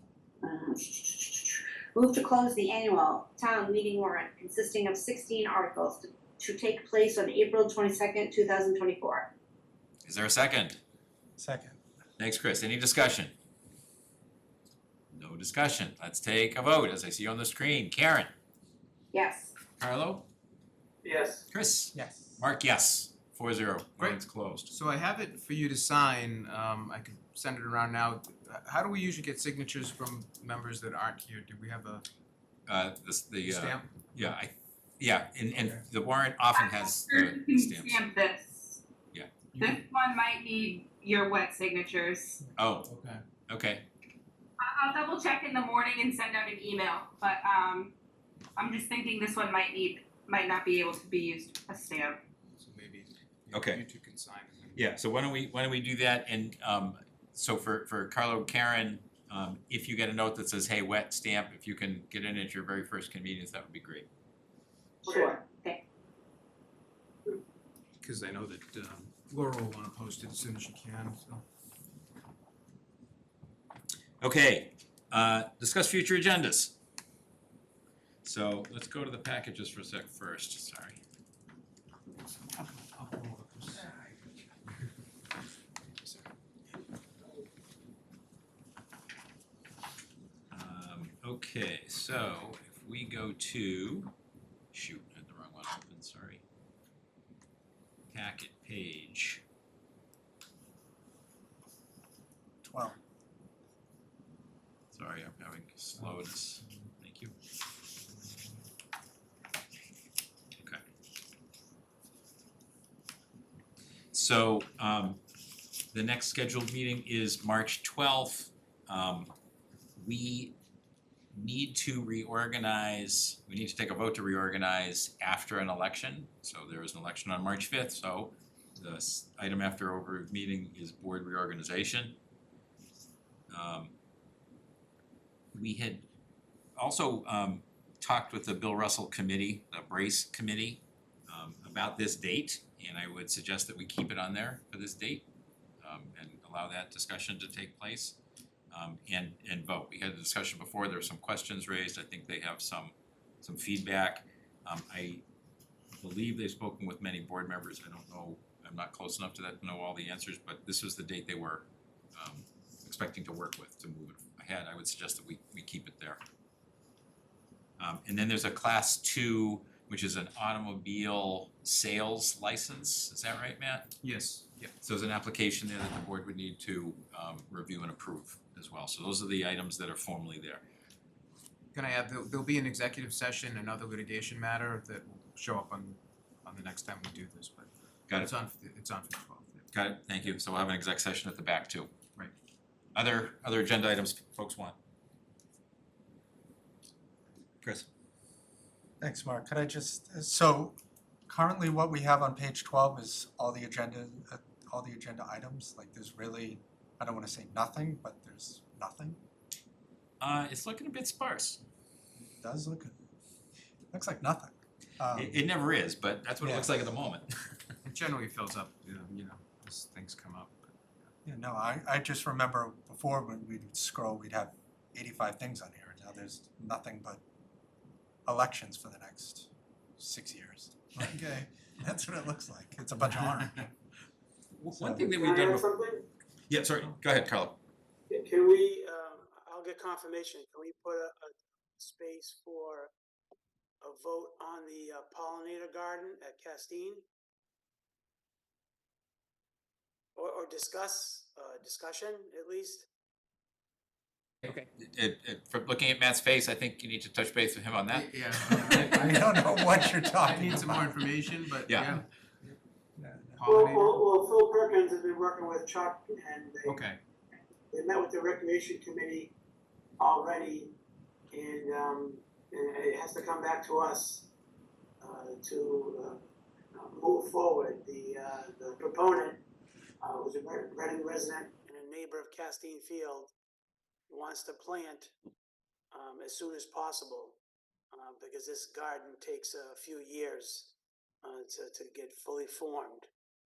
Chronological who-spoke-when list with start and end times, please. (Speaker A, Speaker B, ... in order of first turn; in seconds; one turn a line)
Speaker A: 0.4-9.3
Speaker B: 10.0-10.8
Speaker C: 11.4-11.8
Speaker B: 12.2-13.3
Speaker B: 15.1-18.3
Speaker A: 19.1-19.6
Speaker B: 19.8-20.3
Speaker D: 21.0-21.5
Speaker B: 21.5-24.7
Speaker C: 21.9-22.4
Speaker E: 24.0-32.0
Speaker B: 32.7-38.1
Speaker E: 33.4-33.9
Speaker F: 36.5-38.8
Speaker E: 39.5-39.8
Speaker F: 39.6-42.4
Speaker B: 42.6-42.9
Speaker E: 42.8-43.2
Speaker B: 43.5-43.9
Speaker F: 44.6-47.9
Speaker F: 48.5-52.2
Speaker E: 52.6-54.9
Speaker B: 53.5-53.8
Speaker B: 54.8-64.0
Speaker A: 65.0-65.8
Speaker D: 65.1-65.4
Speaker E: 68.0-71.4
Speaker B: 74.2-76.7
Speaker B: 78.2-81.0
Speaker E: 82.3-83.9
Speaker B: 90.5-94.1
Speaker B: 94.7-96.4
Speaker B: 98.1-99.4
Speaker C: 102.6-103.0
Speaker B: 104.9-107.3
Speaker B: 114.1-115.2
Speaker B: 115.9-119.3
Speaker B: 120.0-120.5
Speaker B: 121.3-132.2
Speaker B: 133.5-133.9
Speaker B: 135.5-136.1
Speaker B: 136.8-145.2
Speaker B: 145.8-148.2
Speaker B: 148.7-155.2
Speaker B: 156.0-166.2
Speaker B: 167.8-173.9
Speaker E: 174.0-174.7
Speaker B: 174.8-180.6
Speaker E: 181.7-189.7
Speaker B: 189.7-191.9
Speaker B: 192.9-194.7
Speaker B: 197.6-197.9
Speaker C: 199.0-200.8
Speaker C: 201.3-209.2
Speaker B: 210.2-211.6
Speaker C: 212.2-213.0
Speaker C: 213.9-215.4
Speaker B: 215.1-217.3
Speaker C: 216.4-216.8
Speaker E: 217.8-221.1
Speaker C: 221.2-227.2
Speaker C: 228.2-233.7
Speaker E: 231.0-231.5
Speaker B: 234.6-235.7
Speaker C: 234.7-235.1
Speaker D: 235.1-236.1
Speaker B: 236.5-237.6
Speaker D: 238.1-242.9
Speaker D: 243.8-247.0
Speaker D: 250.2-252.9
Speaker B: 254.4-259.0
Speaker E: 257.9-262.0
Speaker C: 258.5-260.9
Speaker B: 261.6-262.0
Speaker C: 263.0-263.4
Speaker E: 263.3-264.0
Speaker D: 263.4-266.8
Speaker E: 266.6-267.0
Speaker D: 267.7-269.3
Speaker D: 270.0-270.7
Speaker D: 271.3-274.3
Speaker D: 275.0-276.2
Speaker D: 276.7-279.4
Speaker D: 280.0-283.3
Speaker D: 284.1-285.1
Speaker D: 285.9-287.4
Speaker D: 287.9-293.1